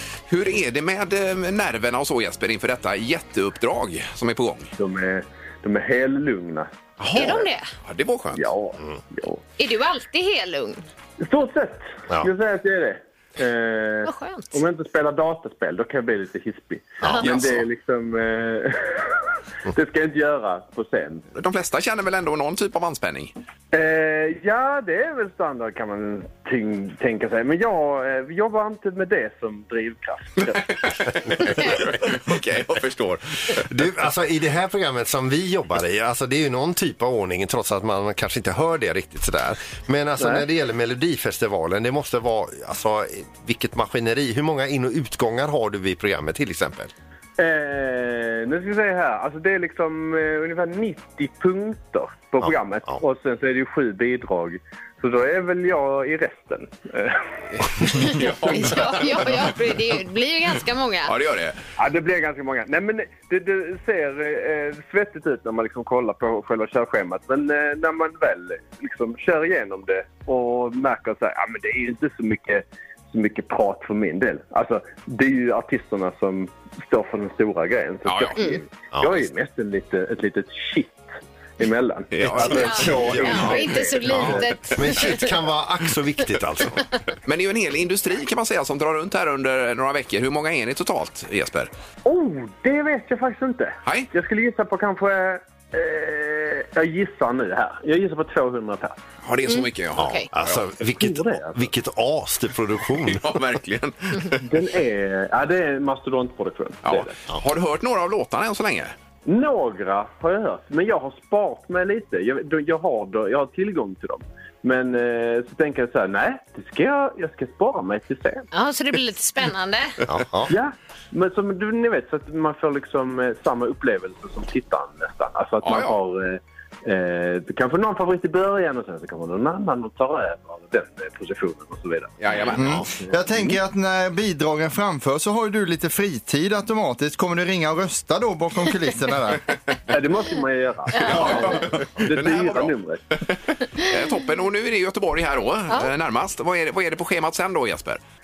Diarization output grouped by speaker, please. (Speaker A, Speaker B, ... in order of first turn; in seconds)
Speaker A: 0.3-4.7, 7.0-8.4, 21.3-23.3, 30.4-33.6, 57.5-59.5, 61.0-61.6, 78.0-78.4, 82.1-83.6, 87.2-91.7, 93.8-94.1, 99.2-100.6, 103.0-104.4, 106.8-108.9, 125.6-126.0, 132.2-132.8, 141.0-148.0
Speaker B: 4.8-7.4, 8.3-9.4, 11.2-21.2, 23.7-30.6, 40.2-40.4, 47.4-59.1, 61.8-84.4, 92.0-99.0, 101.0-101.6, 104.4-107.1, 109.2-118.5, 120.5-132.2, 139.9-143.0
Speaker C: 7.1-7.7, 9.6-10.8, 14.0-14.5, 57.9-61.1, 82.4-85.4, 99.5-100.3, 118.5-120.0, 140.9-141.3
Speaker D: 17.0-17.6, 33.5-46.9, 52.4-53.0, 78.9-79.2, 82.2-86.8, 100.0-103.4, 120.1-120.5
Speaker E: 132.5-139.4